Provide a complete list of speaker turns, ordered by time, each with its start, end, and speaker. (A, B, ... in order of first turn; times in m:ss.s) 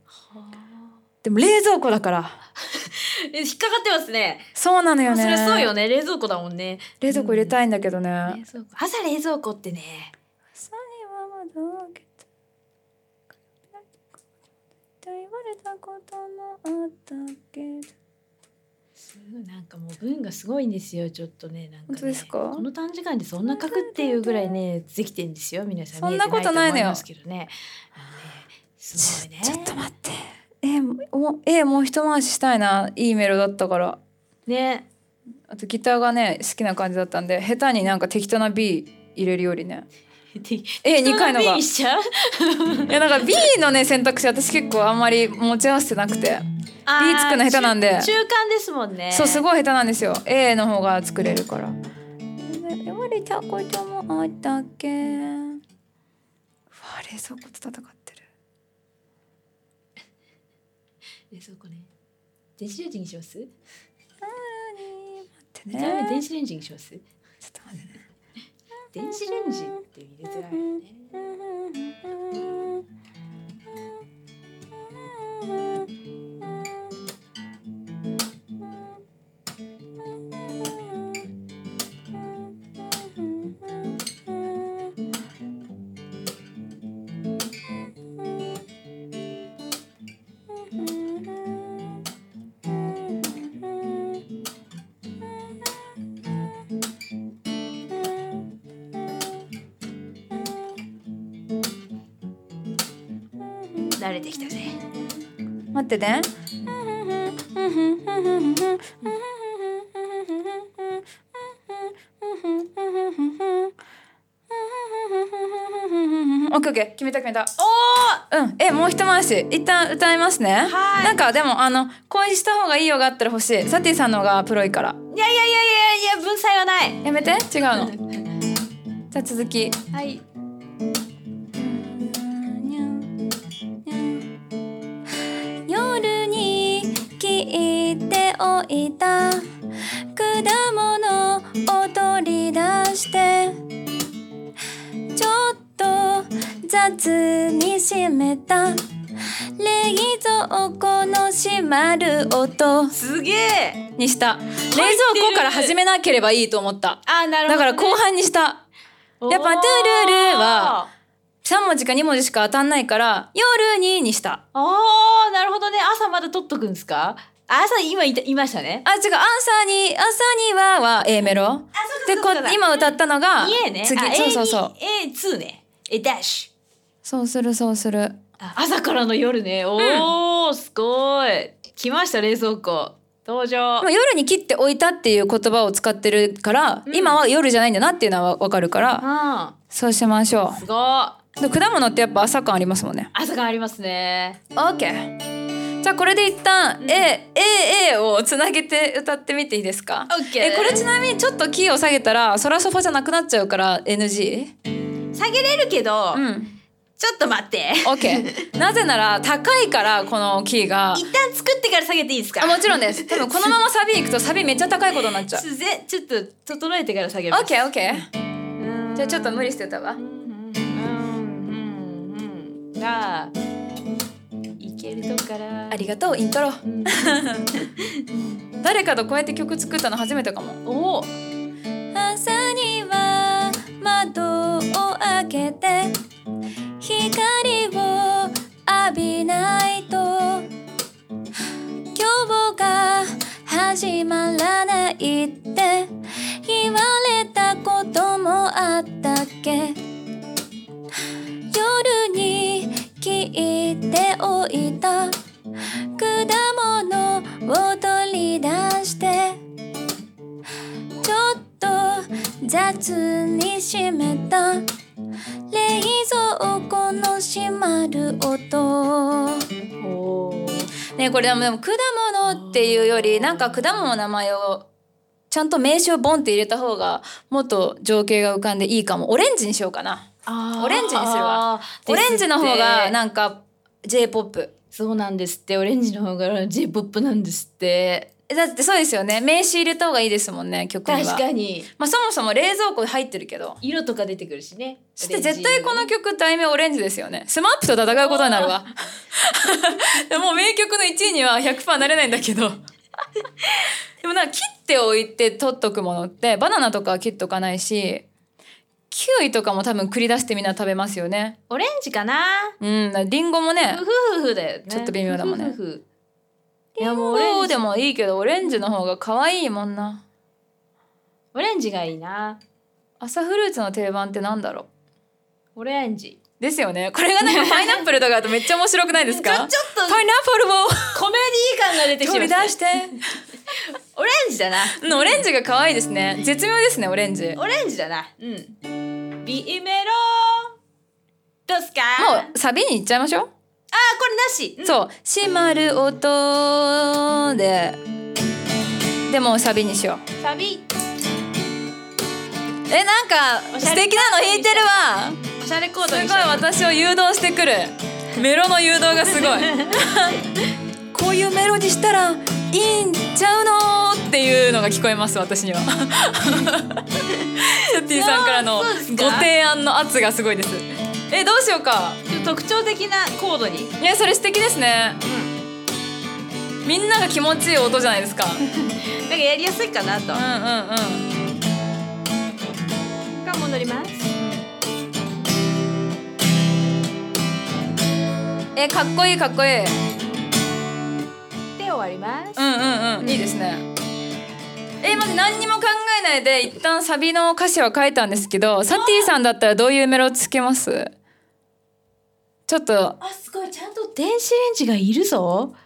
0:00.2-0:00.9 A
0:01.2-0:02.4 B
0:02.8-0:04.5 A
0:04.6-0:05.7 B
0:05.0-0:07.6 A
0:07.0-0:08.4 B
0:08.3-0:10.1 A
0:10.6-0:12.1 B
0:15.0-0:17.9 B
0:19.0-0:29.8 A
0:21.9-0:22.6 B
0:23.5-0:24.5 B
0:26.0-0:27.0 B
0:29.0-0:34.0 B
0:34.5-0:34.9 A
0:35.5-0:39.9 B
0:40.4-0:43.0 A
0:40.8-0:41.6 B
0:42.9-0:46.4 B
0:46.9-0:49.4 A
0:47.0-0:48.1 B
0:49.1-0:51.8 B
0:52.4-0:55.6 B
0:56.7-0:58.2 B
1:01.3-1:01.9 A
1:02.6-1:03.5 A
1:04.2-1:06.2 B
1:05.7-1:07.0 A
1:07.4-1:07.9 B
1:08.9-1:11.1 A
1:09.1-1:09.8 B
1:10.5-1:12.8 B
1:15.0-1:15.8 B
1:20.4-1:21.1 B
1:23.0-1:23.5 B
1:24.3-1:24.9 B
1:30.5-1:31.7 B
1:33.2-1:34.0 B
1:43.7-1:44.0 B
1:44.0-1:44.8 A
1:45.7-1:53.7 B
1:54.5-1:57.5 B
1:57.6-1:58.3 A
1:58.3-2:05.0 B
2:00.6-2:01.2 A
2:05.1-2:07.0 A
2:07.0-2:08.0 B
2:09.1-2:09.9 B
2:09.9-2:10.2 A
2:11.6-2:13.1 B
2:13.9-2:14.3 B
2:15.7-2:19.5 B
2:20.2-2:23.6 B
2:25.1-2:28.8 B
2:29.6-2:33.0 B
2:32.9-2:33.8 A
2:34.0-2:38.6 B
2:34.7-2:35.8 A
2:37.1-2:38.0 A
2:39.2-2:40.9 A
2:39.3-2:40.8 B
2:41.4-2:44.4 B
2:44.5-2:48.8 A
2:48.8-2:54.7 B
2:51.7-2:56.5 A
2:57.0-2:58.2 B
2:58.4-3:03.9 A
2:59.8-3:00.1 B
3:03.8-3:09.0 B
3:06.9-3:07.2 A
3:09.0-3:09.6 A
3:09.7-3:10.6 B
3:10.5-3:11.2 A
3:11.4-3:13.1 B
3:13.1-3:14.4 A
3:14.6-3:15.2 B
3:15.8-3:24.5 B
3:16.8-3:17.1 A
3:20.1-3:20.8 A
3:25.1-3:26.3 A
3:26.1-3:26.5 B
3:27.0-3:28.5 A
3:27.8-3:31.0 B
3:30.9-3:33.6 A
3:32.4-3:35.4 B
3:35.2-3:38.0 A
3:37.3-3:38.1 B
3:38.6-3:43.3 A
3:39.0-3:40.0 B
3:44.6-3:45.9 A
3:45.7-3:47.5 B
3:46.6-3:48.0 A
3:48.6-3:50.6 B
3:50.6-3:51.1 A
3:51.9-3:56.0 B
3:56.8-4:00.5 B
4:01.9-4:09.8 B
4:11.5-4:15.2 B
4:16.0-4:19.4 B
4:21.0-4:24.7 B
4:25.5-4:29.5 B
4:29.8-4:30.7 A
4:31.0-4:34.7 B
4:32.3-4:33.9 A
4:35.3-4:40.1 B
4:40.3-4:43.0 A
4:40.6-4:44.5 B
4:44.7-4:48.1 A
4:48.3-4:51.2 B
4:50.9-4:51.7 A
4:51.8-4:53.6 B
4:53.6-4:55.9 A
4:55.0-5:02.6 B
4:57.9-4:58.6 A
5:04.0-5:08.1 B
5:08.9-5:11.4 B
5:11.5-5:12.6 A
5:12.6-5:13.8 B
5:13.7-5:15.8 A
5:14.7-5:15.6 B
5:16.8-5:17.6 A
5:16.8-5:20.0 B
5:21.3-5:22.4 A
5:23.0-5:24.7 B
5:25.6-5:26.2 A
5:26.4-5:31.0 B
5:27.2-5:27.8 A
5:28.9-5:30.0 A
5:30.9-5:32.6 A
5:32.0-5:33.1 B
5:33.5-5:35.2 A
5:34.8-5:37.4 B
5:37.4-5:38.6 A
5:39.2-5:40.6 A
5:41.5-5:42.3 A
5:42.0-5:43.3 B
5:43.7-5:44.8 A
5:44.6-5:47.8 B
5:49.1-5:50.0 B
5:50.2-5:50.7 A
5:52.7-5:55.2 B
5:53.5-5:56.5 A
5:55.9-6:00.2 B
5:59.2-5:59.8 A
6:00.9-6:06.8 B
6:07.5-6:12.0 B
6:07.8-6:09.3 A
6:12.1-6:13.7 A
6:13.8-6:15.0 B
6:15.0-6:15.3 A
6:16.6-6:18.4 B
6:18.5-6:20.2 A
6:20.1-6:21.1 B
6:23.2-6:24.4 A
6:28.6-6:29.8 B
6:31.6-6:33.2 A
6:32.4-6:33.7 B
6:34.8-6:40.9 B
6:38.7-6:39.1 A
6:42.5-6:43.0 B
6:43.0-6:45.6 A